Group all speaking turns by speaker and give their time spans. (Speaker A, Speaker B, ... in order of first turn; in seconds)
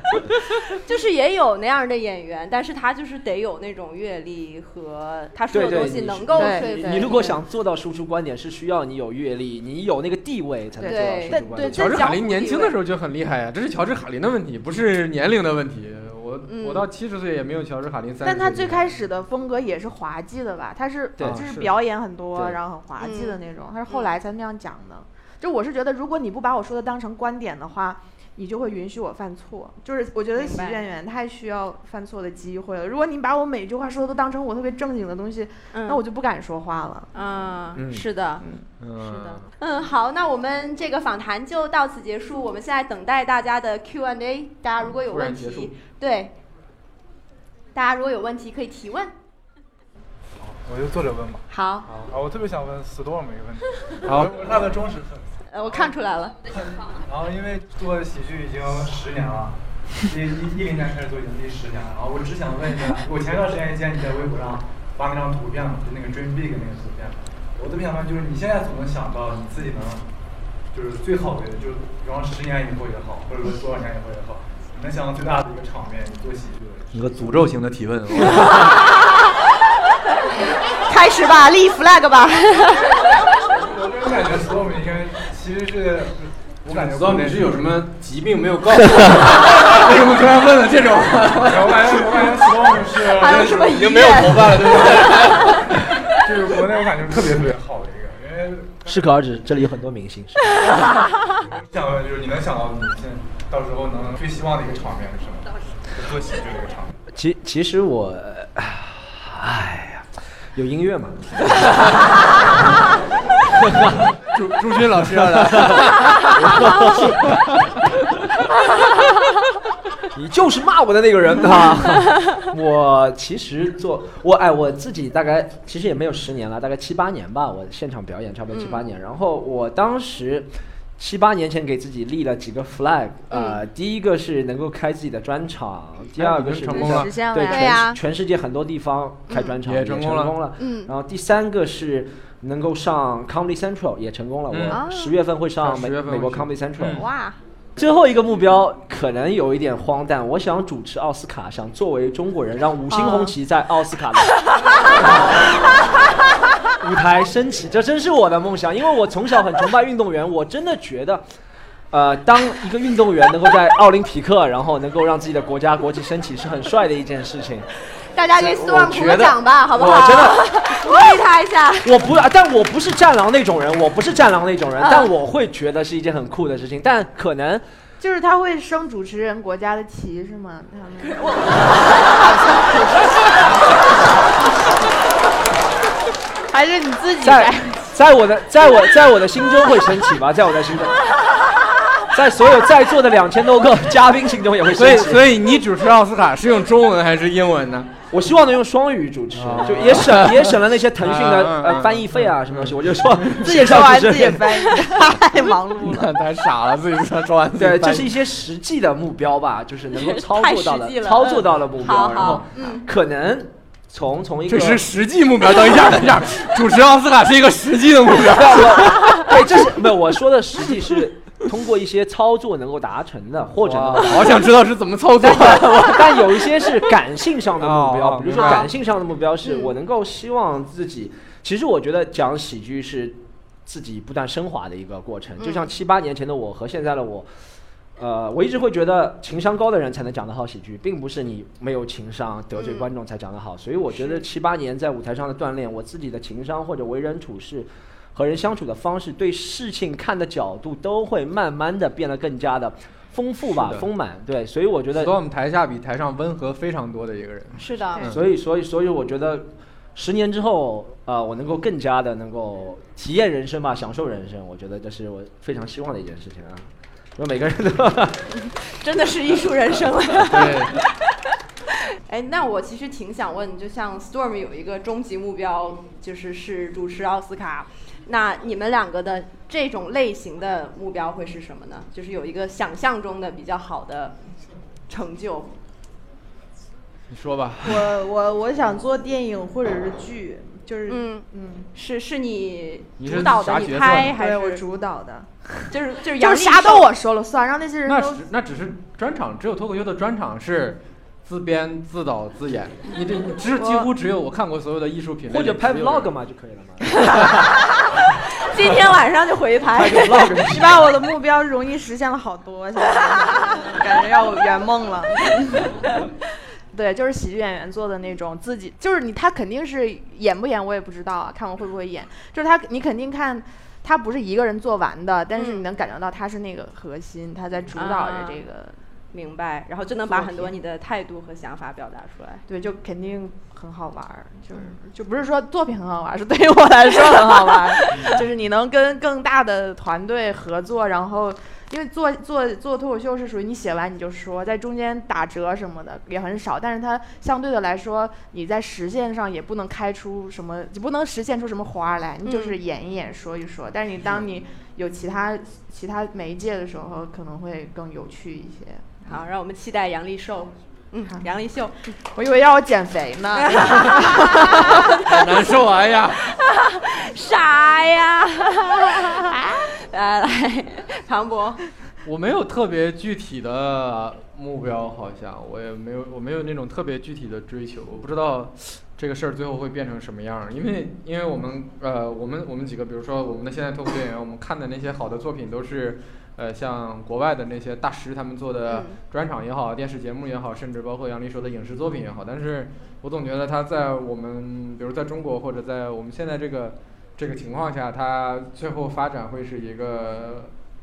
Speaker A: 0.7-7.4, 10.8-12.8, 16.5-16.9, 23.0-24.1, 30.4-30.8, 35.7-36.0, 37.1-38.5, 39.0-46.4, 47.7-49.1, 51.5-51.9, 55.5-56.4, 78.4-78.8, 80.7-83.0, 93.1-96.1, 128.5-128.8, 133.3-133.6, 137.5-138.0, 140.6-140.9, 144.7-145.1, 146.8-147.4, 152.9-153.2, 168.1-171.9, 174.8-175.1, 181.0-182.6, 209.9-212.8, 229.4-229.7, 235.4-235.7, 242.6-242.9, 257.6-258.1, 268.4-271.0, 271.7-284.2, 284.9-285.6, 290.9-294.6, 295.7-296.9, 306.9-310.4, 325.4-325.6, 327.7-328.4, 329.1-332.4, 337.8-338.1, 352.2-352.6, 359.1-361.8, 363.4-365.5, 366.3-371.6, 388.7-389.0
Speaker B: 5.5-11.8, 21.2-21.5, 22.3-22.6, 37.8-38.0, 88.8-89.3, 98.9-100.7, 107.1-111.9, 113.5-114.0, 115.0-117.5, 120.0-147.1, 147.8-154.3, 156.8-161.2, 161.9-167.7, 168.3-170.4, 171.8-177.7, 187.2-191.0, 192.1-195.3, 198.1-205.0, 207.6-214.8, 218.3-224.5, 225.2-237.3, 238.0-255.2, 258.1-268.4, 305.3-307.5, 309.7-310.9
Speaker C: 6.3-7.2, 10.8-11.9, 18.2-37.5, 38.4-38.7, 136.7-137.8, 178.0-183.1, 186.5-187.9, 203.4-206.1, 287.6-291.7, 294.1-295.6, 296.1-298.3, 303.6-303.9, 310.5-316.2, 316.7-328.8, 330.1-330.6, 332.5-359.2, 362.1-365.0
Speaker D: 11.7-19.0, 21.2-21.8, 38.8-39.5, 44.8-45.7, 51.9-52.1, 54.0-54.6, 76.9-78.7, 86.7-92.5, 93.8-96.5, 114.3-117.5, 136.2-137.1, 139.6-140.4, 144.5-144.8, 145.6-147.0, 194.7-197.9, 199.3-203.8, 205.8-208.2, 212.1-212.4, 214.5-219.6, 223.6-226.7, 227.6-228.7, 253.5-253.9, 254.9-258.2, 270.3-270.8, 287.1-287.9, 293.0-294.2, 297.9-306.1, 363.6-364.0, 364.9-366.3, 372.0-400.5
Speaker E: 50.4-51.5, 52.1-55.9, 56.5-70.1, 70.7-77.5, 83.4-87.7, 91.4-99.3, 101.4-107.0